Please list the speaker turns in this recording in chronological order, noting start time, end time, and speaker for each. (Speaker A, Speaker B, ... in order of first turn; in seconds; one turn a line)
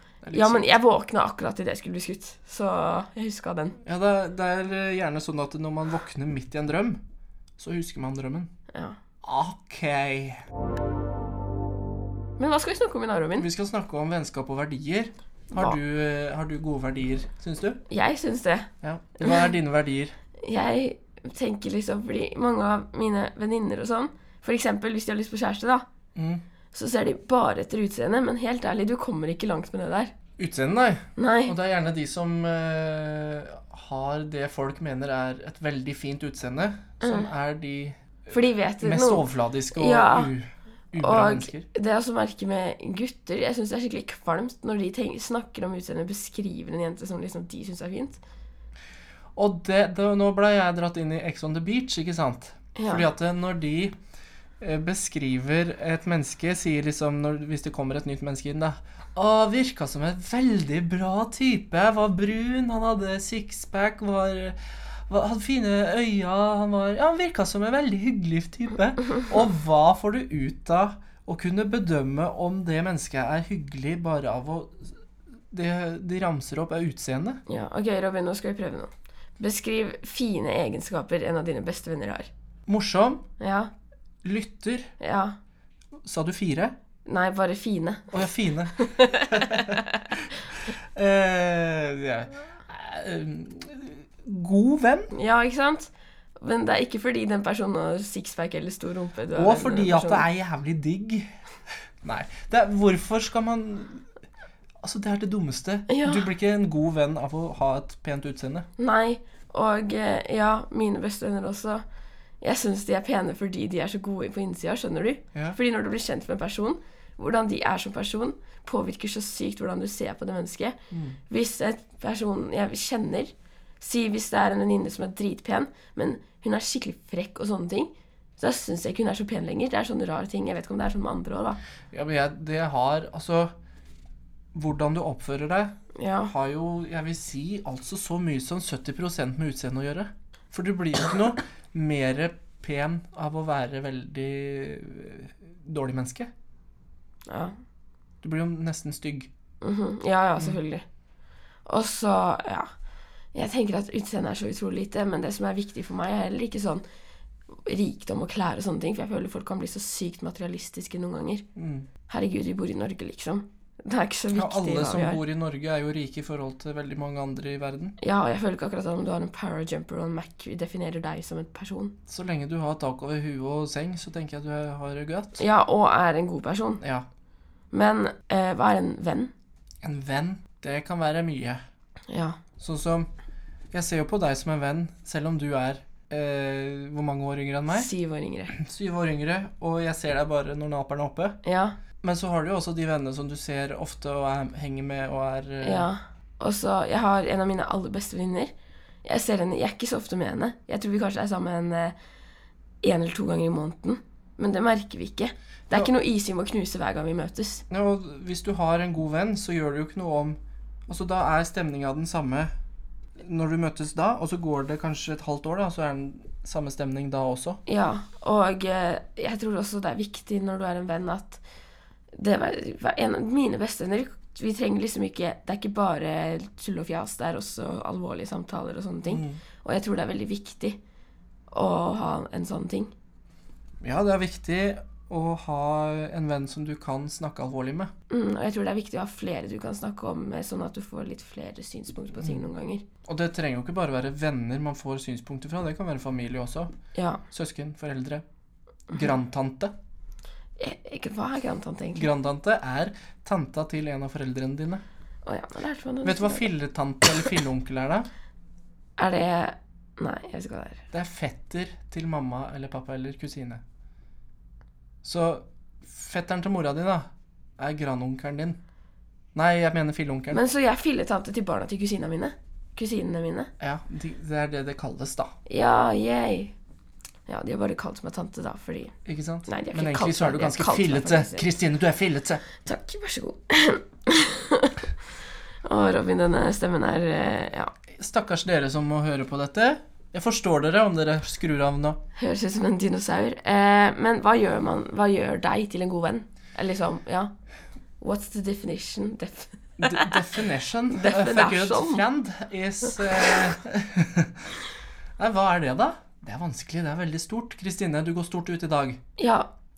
Speaker A: 0.2-0.8
Speaker B: 0.3-3.8
Speaker A: 3.8-7.0
Speaker A: 7.6-8.5
Speaker B: 8.7-9.0
Speaker A: 9.2-10.4
Speaker B: 12.4-13.5
Speaker A: 13.4-17.8
Speaker B: 17.9-18.7
Speaker A: 18.8-20.2
Speaker B: 20.4-25.9
Speaker A: 26.1-26.4
Speaker B: 26.7-30.1
Speaker A: 30.4-41.7
Speaker B: 31.2-31.6
Speaker B: 37.0-37.3
Speaker B: 38.3-40.3
Speaker B: 41.0-48.2
Speaker A: 49.4-54.0
Speaker B: 52.8-53.1
Speaker A: 54.6-74.9
Speaker A: 75.5-77.4
Speaker B: 77.5-82.3
Speaker A: 82.7-83.3
Speaker B: 83.4-83.7
Speaker A: 84.2-84.9
Speaker B: 85.0-85.4
Speaker A: 86.0-86.7
Speaker B: 87.1-88.2
Speaker A: 88.1-95.1
Speaker B: 88.8-89.8
Speaker B: 95.1-100.2
Speaker A: 99.3-101.3
Speaker A: 102.0-104.1
Speaker A: 104.8-108.7
Speaker B: 105.9-106.2
Speaker B: 108.8-111.8
Speaker B: 112.4-120.8
Speaker A: 120.9-121.2
Speaker B: 121.3-131.6
Speaker A: 131.9-133.5
Speaker A: 134.5-135.8
Speaker B: 135.9-136.3
Speaker A: 136.3-146.3
Speaker B: 147.3-147.6
Speaker A: 148.2-149.3
Speaker B: 149.6-150.8
Speaker B: 151.7-152.7
Speaker B: 153.3-156.8
Speaker B: 157.7-161.5
Speaker A: 161.6-161.9
Speaker B: 162.1-165.2
Speaker A: 164.3-168.0
Speaker B: 168.0-172.0
Speaker A: 172.1-175.4
Speaker B: 175.4-176.8
Speaker A: 176.8-177.1
Speaker B: 177.7-179.3
Speaker A: 179.8-181.6
Speaker B: 182.1-182.4
Speaker A: 182.6-183.1
Speaker A: 183.7-187.9
Speaker B: 187.7-188.6
Speaker A: 188.5-191.4
Speaker B: 191.4-191.8
Speaker A: 192.0-195.9
Speaker B: 195.6-198.5
Speaker B: 199.0-201.9
Speaker B: 202.8-207.7
Speaker A: 207.7-212.5
Speaker A: 213.2-217.6
Speaker B: 217.7-221.4
Speaker B: 222.2-230.8
Speaker A: 229.1-229.4
Speaker B: 231.5-232.9
Speaker A: 233.8-237.9
Speaker B: 238.1-242.8
Speaker A: 242.2-242.5
Speaker A: 243.1-246.7
Speaker B: 246.9-247.2
Speaker A: 247.3-248.2
Speaker A: 248.9-249.7
Speaker B: 250.6-252.1
Speaker A: 251.9-254.8
Speaker B: 255.2-256.5
Speaker A: 256.0-258.1
Speaker B: 259.0-260.8
Speaker A: 260.9-263.6
Speaker A: 265.0-268.6
Speaker A: 269.3-270.4
Speaker B: 270.3-273.5
Speaker A: 273.6-275.3
Speaker B: 275.5-276.5
Speaker B: 277.3-279.0
Speaker A: 279.1-282.4
Speaker B: 279.5-281.5
Speaker B: 282.6-284.9
Speaker B: 285.6-287.7
Speaker A: 287.9-292.0
Speaker B: 292.2-297.3
Speaker B: 298.0-300.2
Speaker A: 299.8-304.5
Speaker B: 300.9-302.0
Speaker A: 305.2-309.0
Speaker B: 309.2-309.5